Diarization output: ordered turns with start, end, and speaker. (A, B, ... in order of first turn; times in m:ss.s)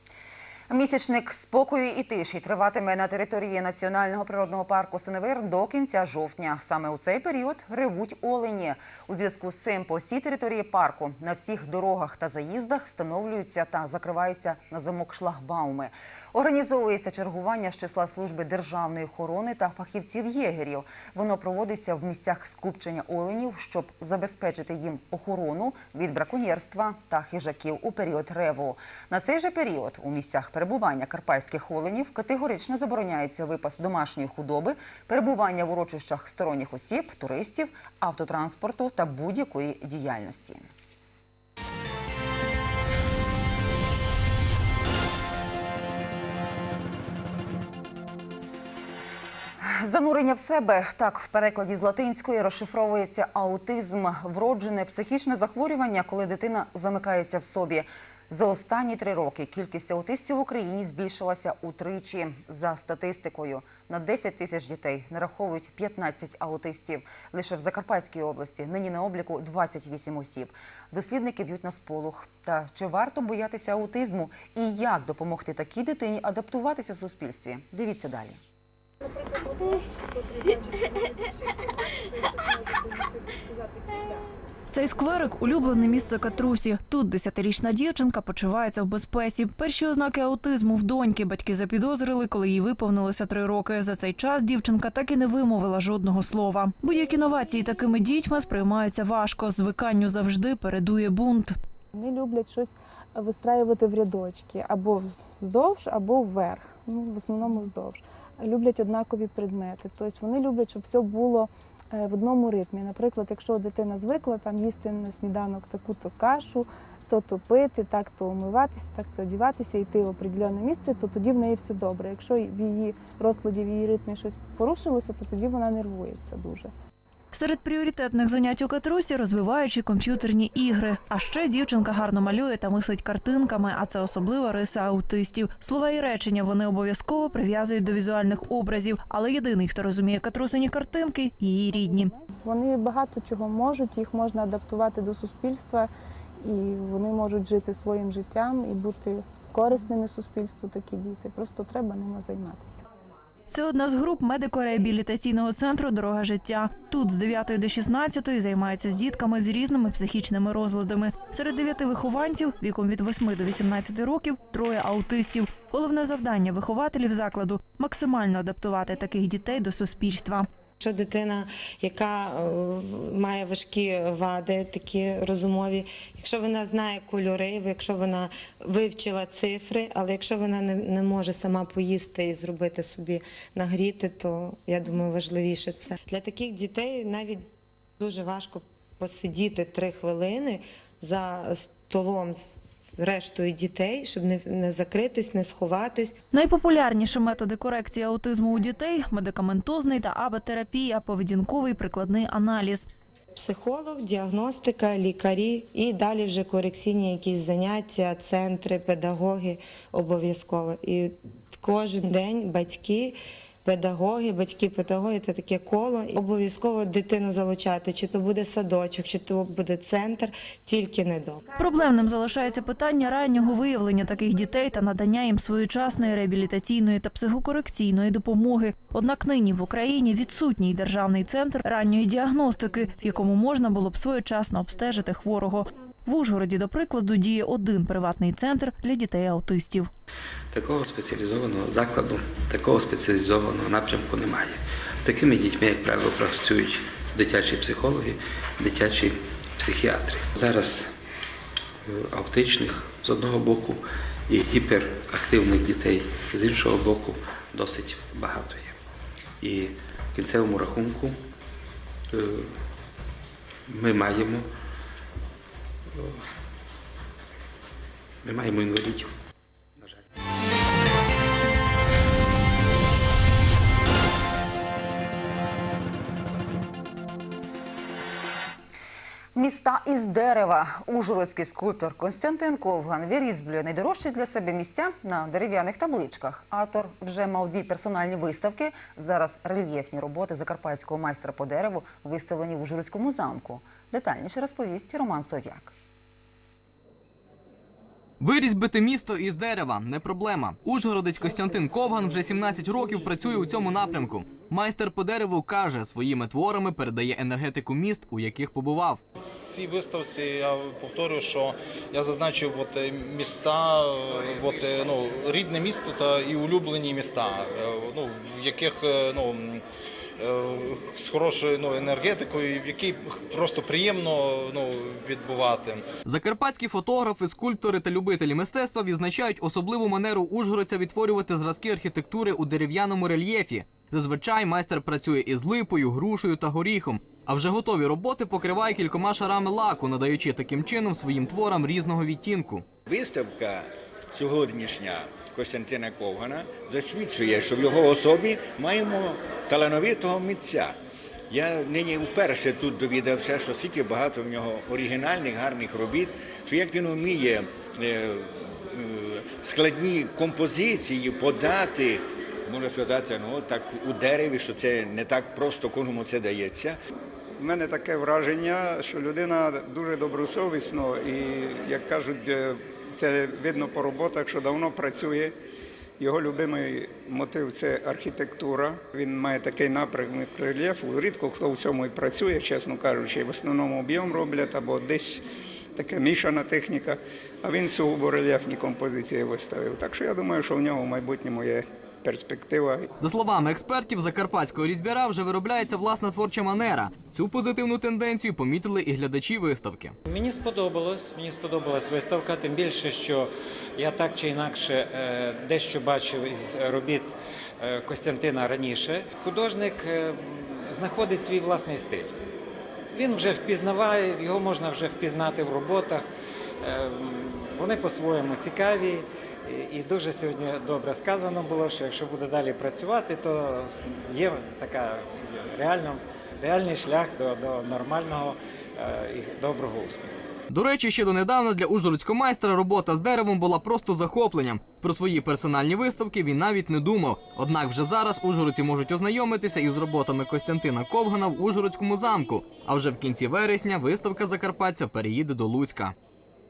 0:00.7-0:40.7 A
0:49.6-1:18.4 A
1:19.1-1:24.2 B
1:24.7-1:41.5 C
1:41.9-2:06.7 B
2:07.3-2:22.1 C
2:21.7-2:25.9 B
2:26.4-2:32.8 B
2:33.5-2:50.5 C
2:50.8-3:07.4 D
3:08.0-3:16.1 D
3:16.3-3:22.9 C
3:23.3-3:41.4 D
3:41.6-3:59.9 C
4:00.5-4:10.9 E
4:11.8-4:18.7 E
4:19.4-4:21.2 E
4:22.1-4:22.5 E
4:23.7-4:24.5 E
4:28.2-4:29.1 E
4:39.4-4:55.7 A
4:58.2-5:09.0 F
5:09.2-5:19.6 G
5:20.2-5:25.8 G
5:26.0-5:42.6 F
5:42.9-5:50.8 H
5:51.3-6:06.8 H
6:07.4-6:15.3 I
6:16.0-6:25.2 I
6:25.8-6:32.8 I
6:33.0-6:39.9 F
6:40.1-6:52.1 J
6:52.9-6:56.1 J
6:56.6-7:10.2 J
7:10.5-7:25.9 F